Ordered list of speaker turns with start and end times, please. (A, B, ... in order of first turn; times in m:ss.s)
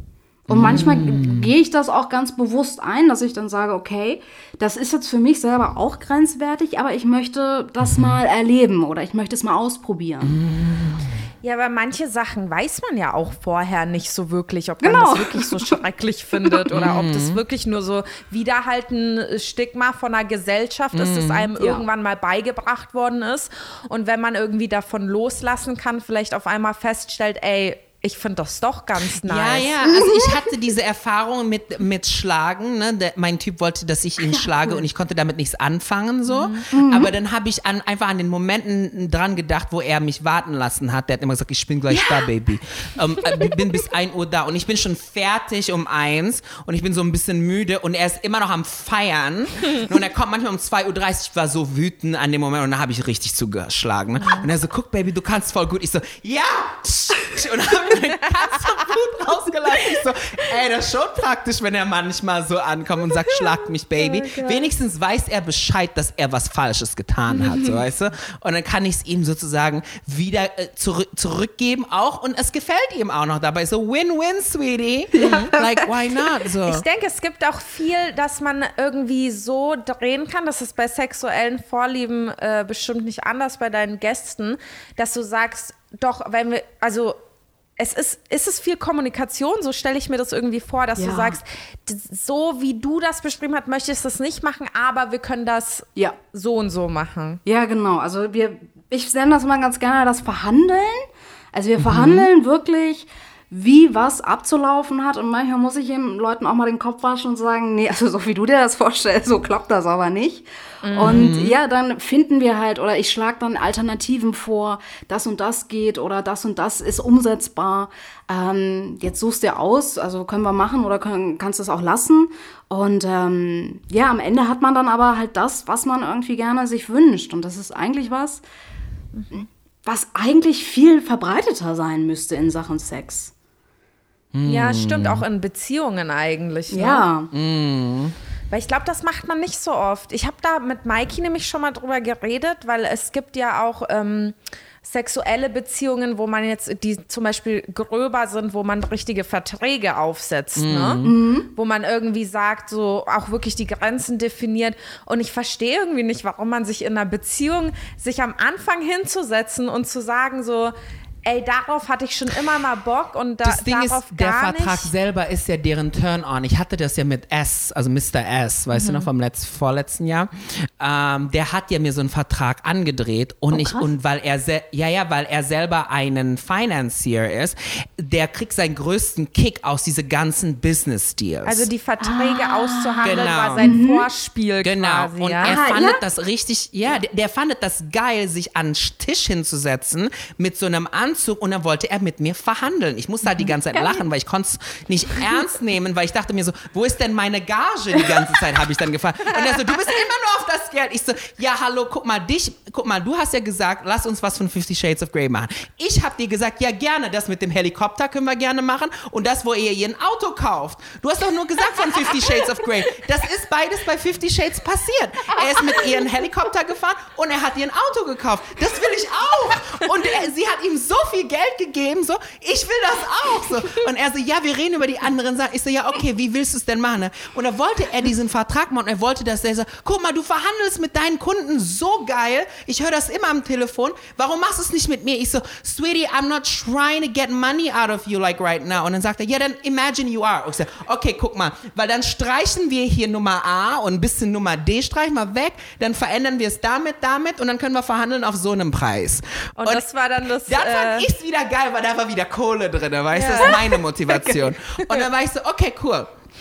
0:00.5-0:10.4 A
0:00.5-0:01.5 B
0:10.2-0:11.2 B
0:11.4-0:29.7 C
0:14.8-0:15.8 A
0:16.7-0:17.4 B
0:20.9-0:21.5 B
0:21.6-0:21.8 A
0:29.2-1:16.8 B
0:29.9-0:30.5 A
0:34.3-0:34.5 A
0:36.2-0:36.6 C
0:36.7-0:37.1 A
0:41.9-0:42.3 A
0:43.3-0:43.7 A
0:54.2-0:54.5 C
1:03.2-1:04.7 C
1:07.4-1:07.7 C
1:15.1-1:15.9 A
1:15.2-1:15.5 C
1:16.7-1:27.2 C
1:27.8-1:37.4 C
1:31.0-1:31.4 A
1:37.4-2:08.4 A
1:41.8-1:42.3 B
1:50.8-1:51.3 C
1:51.0-1:51.6 B
2:09.3-2:13.3 A
2:14.3-2:15.2 B
2:14.4-2:17.1 C
2:16.7-2:17.3 A
2:17.3-2:18.1 B
2:18.5-2:40.7 C
2:30.6-2:31.2 B
2:31.0-2:31.5 A
2:41.2-2:44.9 C
2:43.4-3:01.7 B
2:48.7-2:49.0 C
2:53.5-2:53.9 A
3:01.4-3:05.6 C
3:02.0-3:04.1 A
3:03.0-3:03.7 B
3:04.6-4:09.8 B
3:05.4-3:06.0 A
4:09.6-4:11.1 C
4:10.4-4:16.1 B
4:13.1-4:15.0 C